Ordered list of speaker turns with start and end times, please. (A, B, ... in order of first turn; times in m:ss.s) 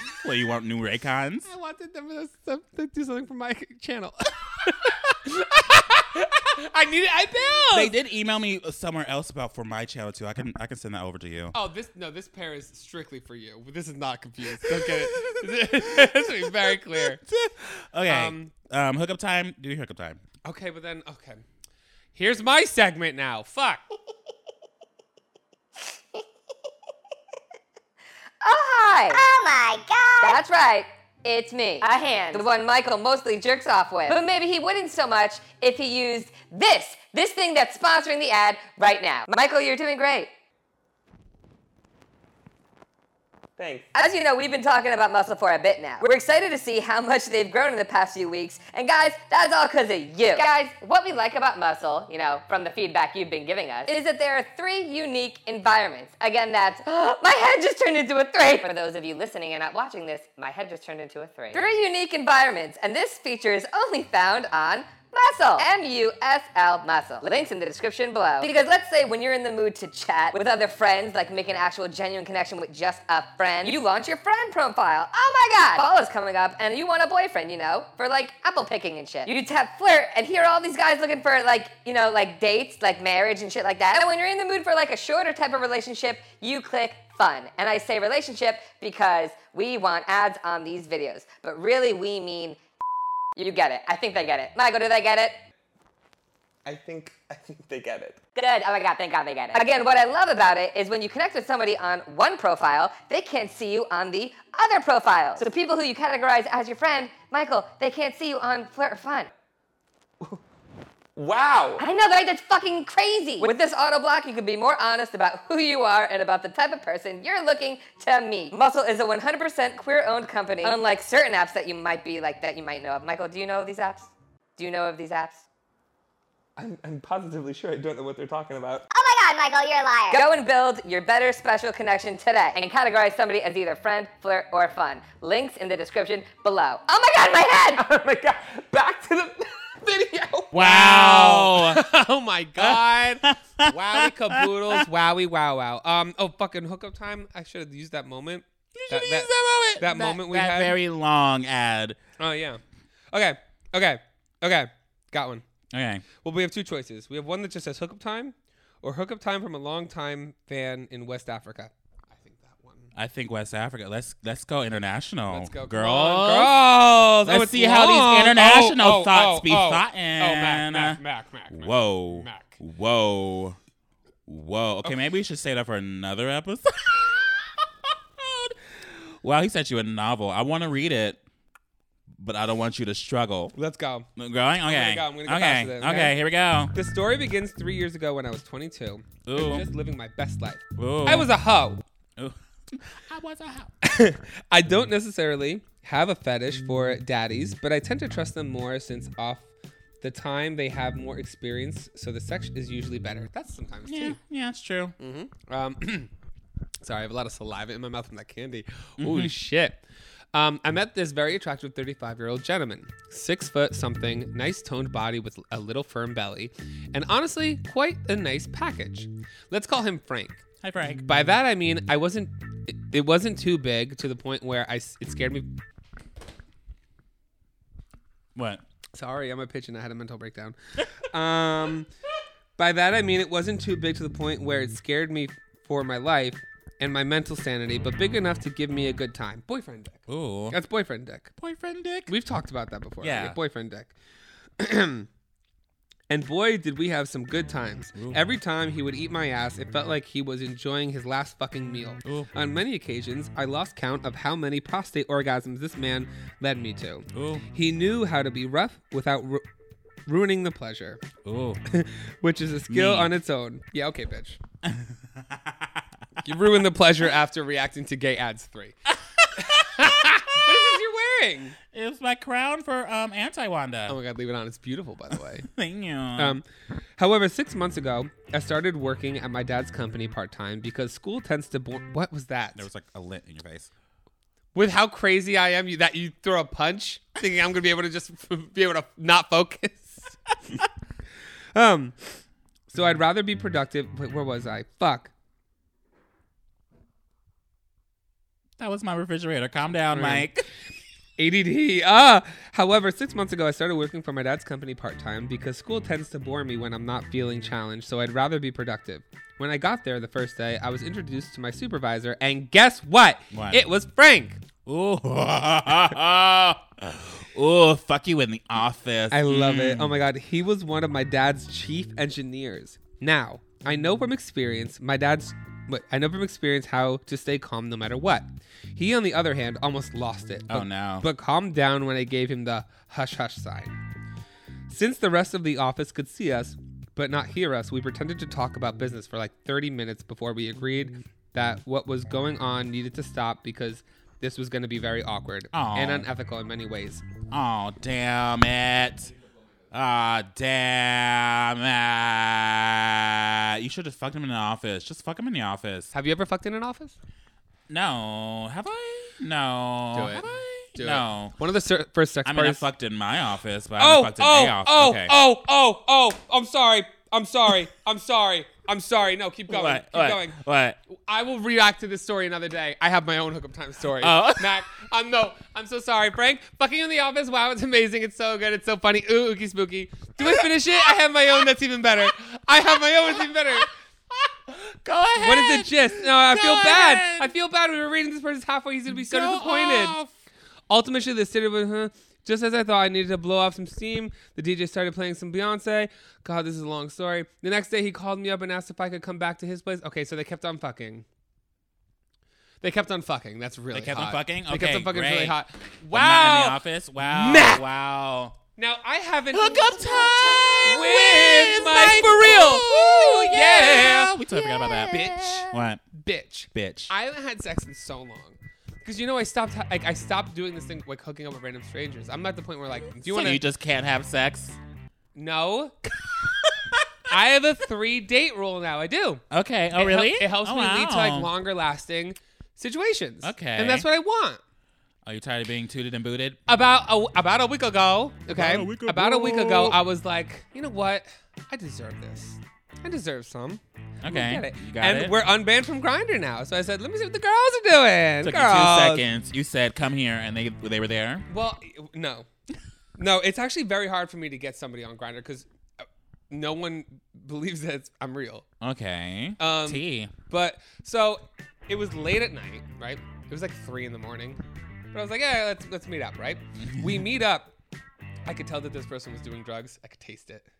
0:00.2-0:01.5 A
0:01.4-0:07.9 B
0:07.7-0:11.5 A
0:11.5-0:17.2 B
0:14.6-0:20.2 A
0:18.1-0:18.5 B
0:20.4-0:21.4 B
0:22.1-0:23.8 B
0:28.4-0:29.2 C
0:29.1-0:30.4 D
0:30.2-0:40.3 C
0:43.6-0:43.8 E
0:43.9-1:32.6 C
1:33.4-1:35.4 C
1:36.7-1:38.1 E
1:38.4-1:49.3 C
1:51.2-1:51.8 E
1:51.8-2:05.4 C
2:06.6-2:08.8 E
2:08.9-2:10.2 D
2:10.1-2:17.8 C
2:17.9-2:20.4 E
2:20.5-2:21.8 A
2:20.5-2:30.8 B
2:22.6-2:24.8 A
2:28.8-2:32.0 A
2:32.2-2:32.6 B
2:33.1-2:35.4 B
2:35.7-2:36.0 A
2:36.2-2:42.9 B
2:42.9-2:46.6 A
2:45.3-2:52.6 B
2:47.2-2:51.0 A
2:51.5-2:53.6 A
2:54.3-2:57.4 A
2:58.2-3:01.2 A
3:02.2-3:03.5 A
3:03.5-3:04.1 B
3:04.2-3:06.7 A
3:04.6-3:06.2 B
3:06.7-3:11.8 B
3:09.2-3:09.7 A
3:10.8-3:11.3 A
3:12.2-3:13.7 A
3:13.8-3:19.5 B
3:20.0-3:24.2 B
3:23.8-3:24.9 A
3:25.0-3:26.1 B
3:26.8-3:29.8 B
3:29.0-3:29.3 A
3:30.3-3:40.4 B
3:40.6-3:41.0 A
3:41.0-3:45.5 B
3:48.3-3:48.6 A
3:48.9-3:51.9 B
3:52.6-4:01.3 B
4:00.1-4:00.6 A
4:01.4-4:02.1 A
4:02.1-4:03.9 B
4:03.0-4:03.4 A
4:04.6-4:05.1 B
4:06.1-4:19.4 B
4:17.1-4:17.4 A
4:20.1-4:21.0 B
4:21.2-4:21.6 A
4:21.7-4:24.4 B
4:22.7-4:23.1 A
4:26.2-4:28.7 B
4:29.4-4:31.6 B
4:31.7-4:34.0 A
4:33.9-4:35.5 B
4:35.4-4:36.4 A
4:36.2-4:36.4 B
4:37.0-4:42.6 B
4:42.6-4:43.7 A
4:44.5-4:50.1 B
4:51.5-4:52.0 B
4:52.7-4:55.1 B
4:58.6-5:00.4 A
4:59.9-5:00.3 B
5:01.2-5:14.4 B
5:13.3-5:13.6 A
5:14.6-5:20.0 A
5:19.1-5:33.8 B
5:30.5-5:31.0 A
5:34.7-5:47.0 B
5:45.5-5:46.1 A
5:47.3-5:49.1 A
5:49.7-5:55.9 A
5:55.9-5:57.0 B
5:57.7-6:01.3 A
5:59.9-6:02.7 B
6:02.2-6:05.1 A
6:03.8-6:23.7 B
6:09.5-6:10.8 A
6:14.0-6:14.6 A
6:20.2-6:20.7 A
6:24.5-6:27.3 A
6:25.2-6:30.0 B
6:28.9-6:30.1 A
6:30.7-6:41.0 B
6:42.6-6:47.7 B
6:43.7-6:45.4 A
6:45.9-6:48.4 A
6:48.6-7:03.4 B
6:49.3-6:55.8 A
6:56.5-6:56.9 A
7:03.0-7:04.6 A
7:05.1-7:05.9 B
7:07.1-7:09.2 B
7:09.3-7:11.3 A
7:09.7-7:14.4 B
7:13.2-7:13.9 A
7:15.0-7:16.4 A
7:16.5-7:29.0 B
7:18.3-7:19.8 A
7:24.0-7:25.2 A
7:28.2-7:31.2 A
7:31.3-7:32.3 B
7:33.0-7:38.4 B
7:38.6-7:40.1 A
7:39.4-7:44.4 B
7:44.9-7:47.5 B
7:46.6-7:47.0 A
7:48.2-7:50.5 B